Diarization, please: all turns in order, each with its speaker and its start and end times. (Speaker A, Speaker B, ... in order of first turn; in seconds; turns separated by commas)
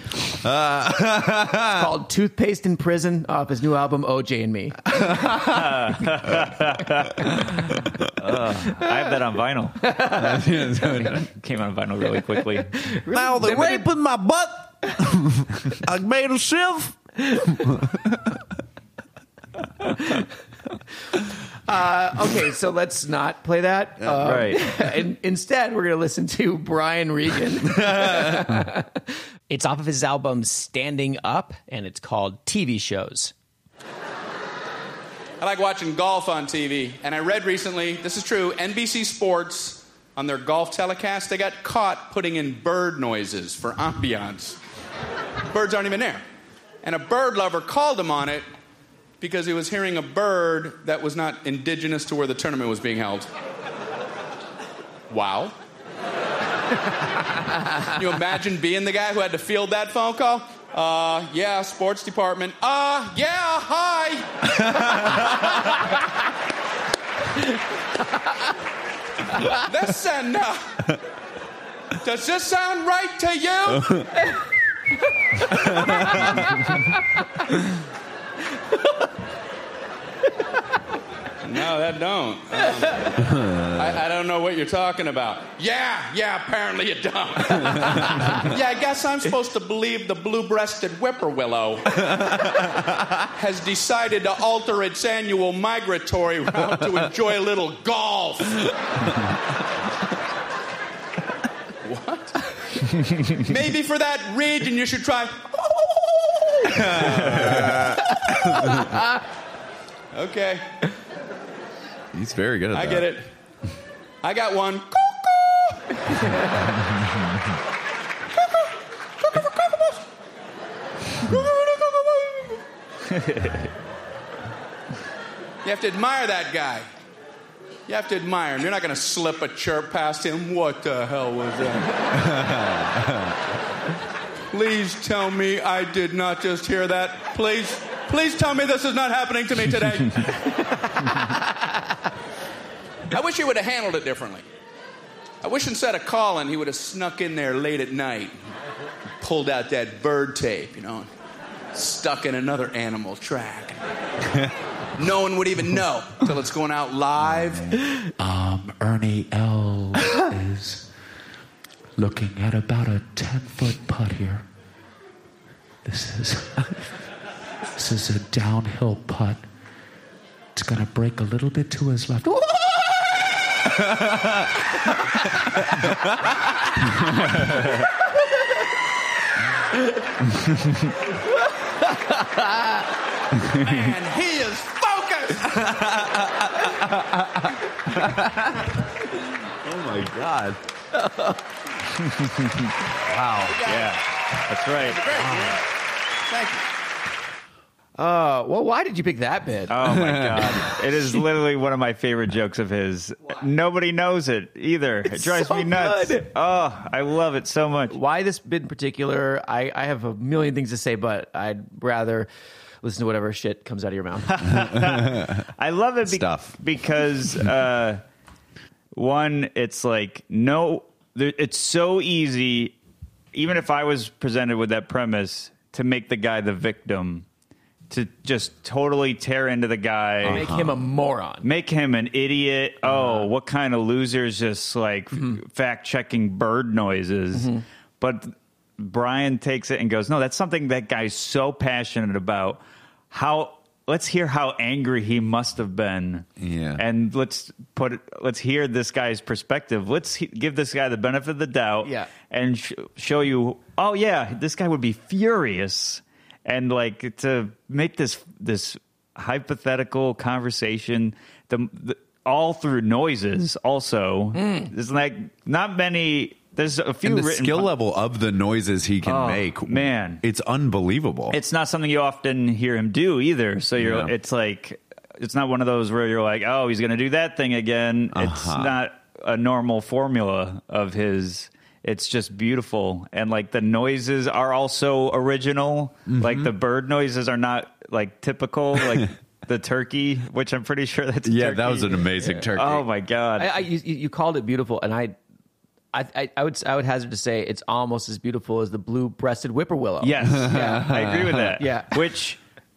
Speaker A: 0.3-1.9, Speaker B: 1.6-5.0, Speaker A: 4.9-5.8, Speaker C: 5.4-10.0, Speaker B: 9.8-10.4, Speaker A: 10.1-11.3, Speaker C: 10.8-12.8, Speaker B: 12.8-13.9, Speaker A: 13.1-18.4, Speaker B: 21.7-33.3, Speaker C: 24.2-24.6, Speaker A: 27.7-28.7, Speaker D: 35.4-44.6, Speaker D: 45.5-46.2, Speaker D: 46.8-48.5, Speaker D: 49.2-53.3, Speaker D: 55.1-55.6, Speaker D: 57.8-65.8, Speaker A: 64.6-65.5, Speaker D: 69.4-70.9, Speaker D: 72.0-74.1, Speaker A: 73.8-74.1, Speaker A: 75.5-76.4, Speaker B: 75.6-76.8, Speaker D: 81.4-99.2, Speaker A: 83.2-84.0, Speaker A: 92.6-92.9, Speaker D: 101.8-108.8, Speaker A: 106.7-109.0, Speaker D: 110.1-110.9, Speaker A: 112.1-113.1, Speaker D: 112.7-113.3, Speaker D: 114.2-116.4, Speaker D: 118.4-118.7, Speaker D: 119.2-120.0, Speaker D: 121.2-122.6, Speaker C: 123.1-123.7, Speaker D: 125.6-126.9, Speaker D: 127.9-132.7, Speaker A: 132.2-133.3, Speaker D: 134.5-141.4, Speaker D: 143.1-144.4, Speaker D: 145.4-148.3, Speaker D: 149.2-151.1, Speaker D: 151.7-153.8, Speaker D: 155.0-157.8, Speaker E: 158.2-160.9, Speaker E: 162.0-164.4, Speaker E: 165.8-166.9, Speaker E: 167.8-169.4, Speaker E: 170.6-172.7, Speaker B: 181.8-182.8, Speaker D: 183.4-185.6, Speaker A: 185.4-188.8, Speaker A: 189.5-190.6, Speaker B: 190.9-191.4, Speaker C: 191.9-192.7, Speaker A: 193.0-193.7, Speaker D: 193.6-193.9, Speaker C: 193.6-195.1, Speaker D: 194.8-195.6, Speaker A: 195.2-195.6, Speaker D: 196.2-196.7, Speaker B: 198.0-200.0, Speaker C: 199.7-208.0, Speaker A: 199.8-200.6, Speaker B: 205.1-206.3, Speaker B: 207.9-212.3, Speaker B: 212.8-214.6, Speaker C: 214.3-218.0, Speaker A: 214.8-215.3, Speaker A: 216.1-216.6, Speaker C: 218.9-222.8, Speaker C: 223.3-227.3, Speaker C: 227.9-230.6, Speaker A: 230.2-230.7, Speaker B: 230.2-231.4, Speaker C: 231.4-242.6, Speaker B: 232.9-233.3, Speaker B: 237.3-237.6, Speaker C: 243.1-267.7, Speaker A: 246.4-246.8, Speaker B: 264.4-264.7, Speaker A: 267.0-271.4, Speaker C: 269.1-270.2, Speaker C: 271.3-293.5, Speaker A: 273.8-274.1, Speaker A: 278.1-278.7, Speaker A: 286.1-286.5, Speaker A: 291.2-292.9, Speaker B: 293.4-295.2, Speaker B: 295.9-300.9, Speaker C: 300.0-302.4, Speaker A: 300.2-301.6, Speaker B: 301.6-302.0